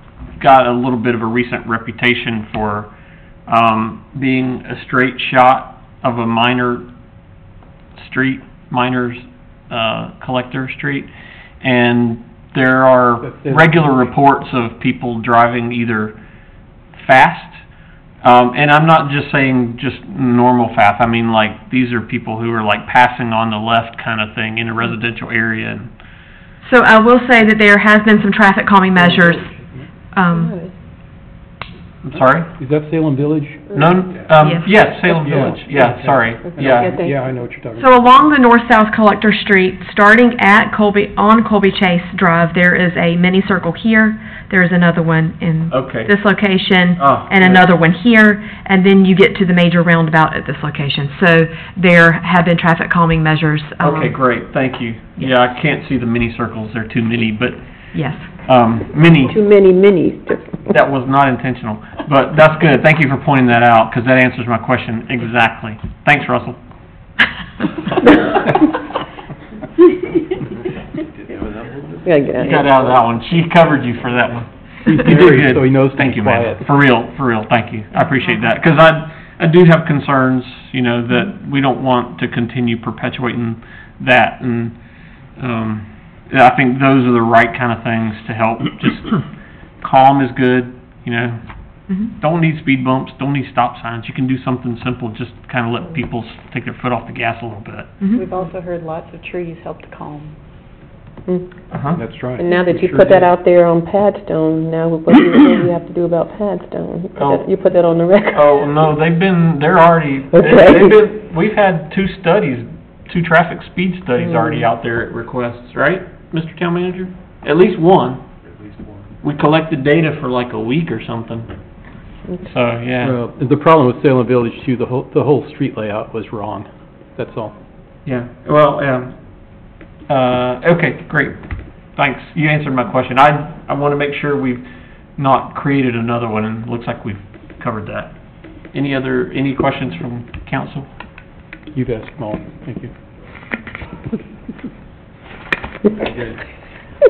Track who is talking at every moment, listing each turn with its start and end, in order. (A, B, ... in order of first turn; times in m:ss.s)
0:00.4-0:02.9 A
0:03.5-0:06.9 A
0:08.0-0:11.1 A
0:11.6-0:16.2 A
0:13.2-0:14.1 B
0:16.9-0:17.6 A
0:18.2-0:25.9 A
0:26.6-0:29.5 C
0:28.9-0:29.9 B
0:30.1-0:30.5 C
0:30.4-0:30.7 D
0:32.0-0:32.5 A
0:32.6-0:33.7 B
0:33.7-0:37.0 A
0:34.4-0:35.3 C
0:35.1-0:38.1 B
0:36.4-0:37.1 D
0:37.8-0:54.2 C
0:45.7-0:46.1 A
0:47.0-0:47.6 A
0:53.8-0:57.6 A
0:57.9-0:58.3 C
0:58.4-0:59.4 A
0:59.3-1:00.6 D
1:00.7-1:06.6 A
1:12.0-1:12.7 D
1:12.4-1:24.8 A
1:14.8-1:16.6 B
1:25.4-1:29.2 A
1:29.8-1:31.4 A
1:32.0-1:38.0 A
1:38.1-1:40.3 E
1:41.7-1:42.0 A
1:41.9-1:43.3 B
1:42.4-1:48.5 D
1:47.1-1:47.5 A
1:48.3-1:58.2 A
1:50.3-1:51.0 D
1:59.2-2:01.5 A
2:02.4-2:03.2 A
2:03.0-2:07.5 B
2:08.0-2:09.1 A
2:10.1-2:11.4 A
2:11.9-2:14.6 A
2:15.2-2:18.1 A
2:18.7-2:20.8 A
2:21.7-2:22.9 B
2:26.0-2:26.4 B